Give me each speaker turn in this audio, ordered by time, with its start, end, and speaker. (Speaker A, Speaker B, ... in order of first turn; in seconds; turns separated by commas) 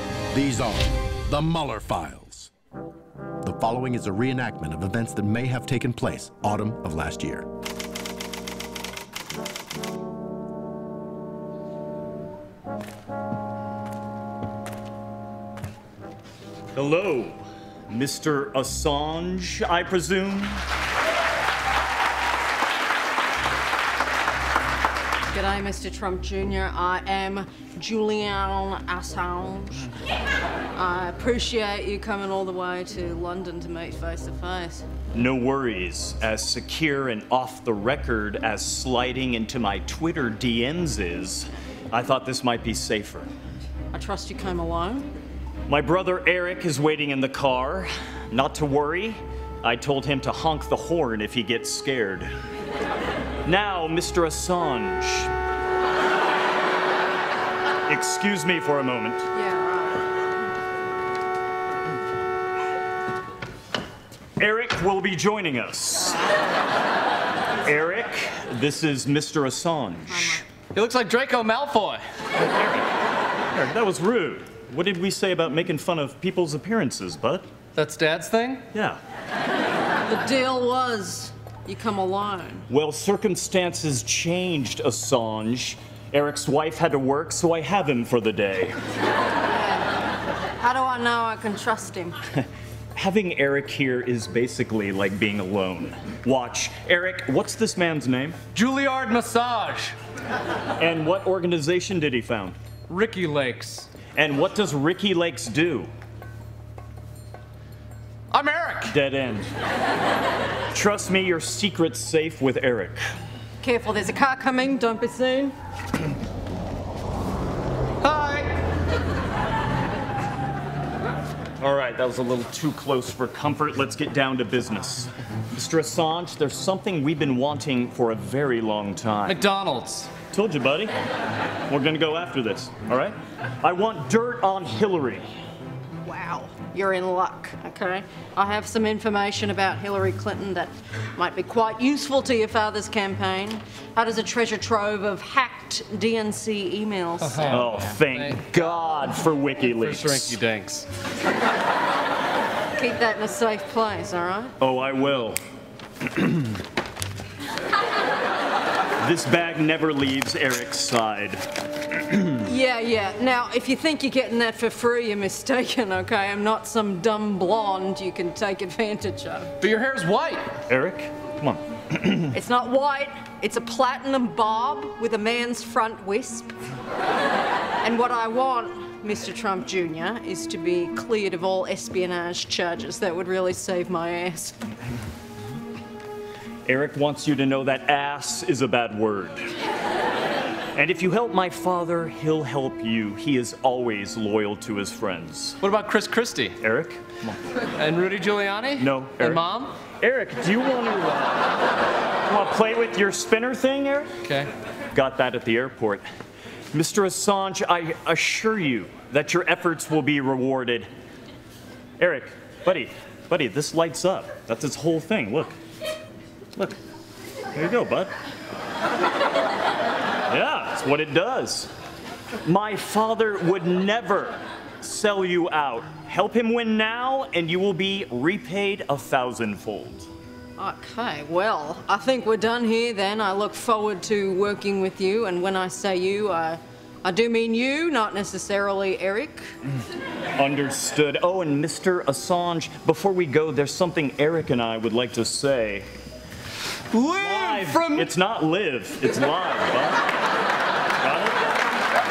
Speaker A: 0.3-2.5, Speaker A: 3.4-7.5, Speaker B: 16.7-20.6, Speaker C: 25.3-29.9, Speaker C: 30.7-34.8, Speaker B: 35.1-43.3, Speaker C: 43.9-45.1, Speaker B: 45.7-52.3, Speaker B: 53.4-55.3, Speaker B: 57.9-59.3, Speaker C: 59.3-60.0, Speaker B: 64.4-66.3, Speaker B: 67.6-70.4, Speaker D: 70.6-72.0, Speaker B: 72.5-72.8, Speaker B: 73.5-77.5, Speaker D: 77.7-78.7, Speaker B: 78.7-79.0, Speaker C: 80.0-82.6, Speaker B: 82.7-88.8, Speaker C: 89.4-89.9, Speaker C: 90.6-92.2, Speaker B: 92.3-98.4, Speaker D: 98.5-100.0, Speaker B: 100.8-102.6, Speaker D: 102.9-103.9, Speaker B: 104.1-105.9, Speaker D: 108.3-108.9, Speaker B: 108.9-109.5, Speaker B: 110.7-113.1, Speaker C: 113.6-115.5, Speaker D: 118.0-118.5, Speaker B: 121.6-129.4, Speaker D: 129.2-130.1, Speaker B: 130.3-130.9, Speaker B: 131.7-135.3, Speaker C: 136.0-147.7, Speaker D: 147.2-148.5, Speaker B: 147.5-150.4, Speaker D: 149.7-150.9, Speaker C: 152.8-154.5, Speaker B: 154.6-155.4, Speaker B: 156.1-156.5, Speaker B: 159.0-162.3, Speaker C: 162.4-169.6, Speaker D: 169.6-170.5, Speaker B: 170.7-172.3, Speaker C: 172.3-176.5, Speaker C: 177.8-184.6, Speaker B: 186.7-189.5, Speaker B: 190.7-195.6, Speaker D: 195.6-196.6, Speaker B: 196.6-197.4, Speaker D: 197.7-199.7, Speaker B: 198.8-201.6, Speaker B: 202.2-204.2, Speaker D: 204.2-204.5, Speaker B: 204.9-206.0, Speaker B: 206.7-210.9, Speaker B: 212.0-215.6, Speaker B: 217.5-218.1, Speaker B: 220.3-221.7, Speaker B: 222.4-230.1, Speaker C: 230.6-239.4, Speaker B: 240.4-245.9, Speaker D: 246.9-248.1, Speaker B: 247.1-250.1, Speaker B: 251.0-251.4